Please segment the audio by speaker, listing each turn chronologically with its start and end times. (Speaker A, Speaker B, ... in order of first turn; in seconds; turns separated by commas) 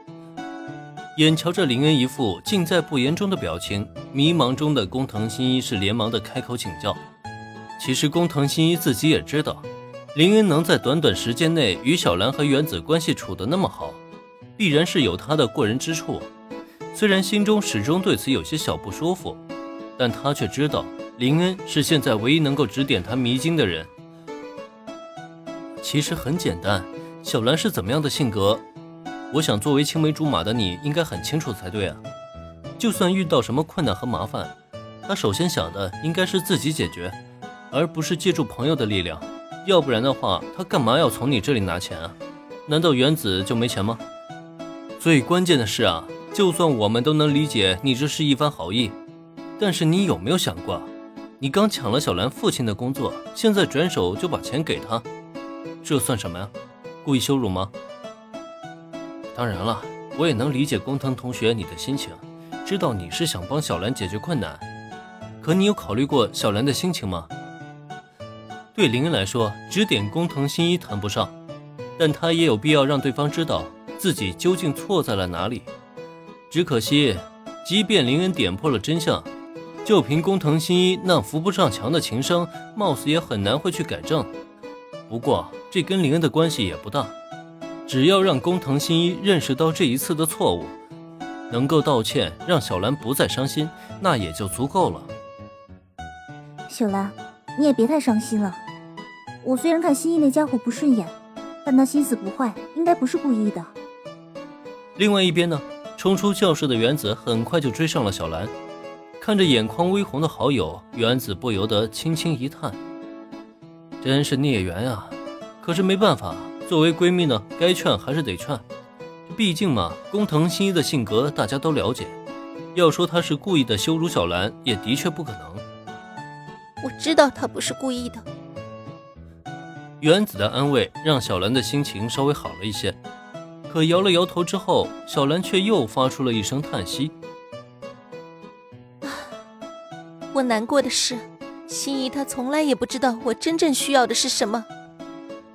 Speaker A: 1.1-7.0, Speaker A: 7.8-14.0, Speaker A: 14.6-16.3, Speaker A: 16.9-19.4, Speaker A: 20.0-23.9, Speaker A: 25.8-28.6, Speaker A: 29.3-32.0, Speaker A: 32.8-34.5, Speaker A: 35.0-37.2, Speaker A: 37.7-44.0, Speaker A: 45.0-49.0, Speaker A: 49.6-55.0, Speaker A: 55.8-56.5, Speaker A: 57.0-57.7, Speaker A: 59.3-64.6, Speaker A: 65.4-67.3, Speaker A: 68.7-71.3, Speaker A: 72.0-75.7, Speaker A: 76.5-79.3, Speaker A: 79.8-84.3, Speaker A: 85.1-87.1, Speaker A: 87.9-90.7, Speaker A: 91.5-95.1, Speaker B: 96.7-98.6, Speaker B: 99.4-103.7, Speaker A: 105.0-108.5, Speaker A: 109.2-112.8, Speaker A: 114.0-118.6, Speaker A: 119.3-122.2, Speaker A: 122.7-125.6, Speaker C: 126.8-128.2, Speaker A: 130.0-133.0, Speaker A: 133.7-137.1, Speaker C: 140.3-144.7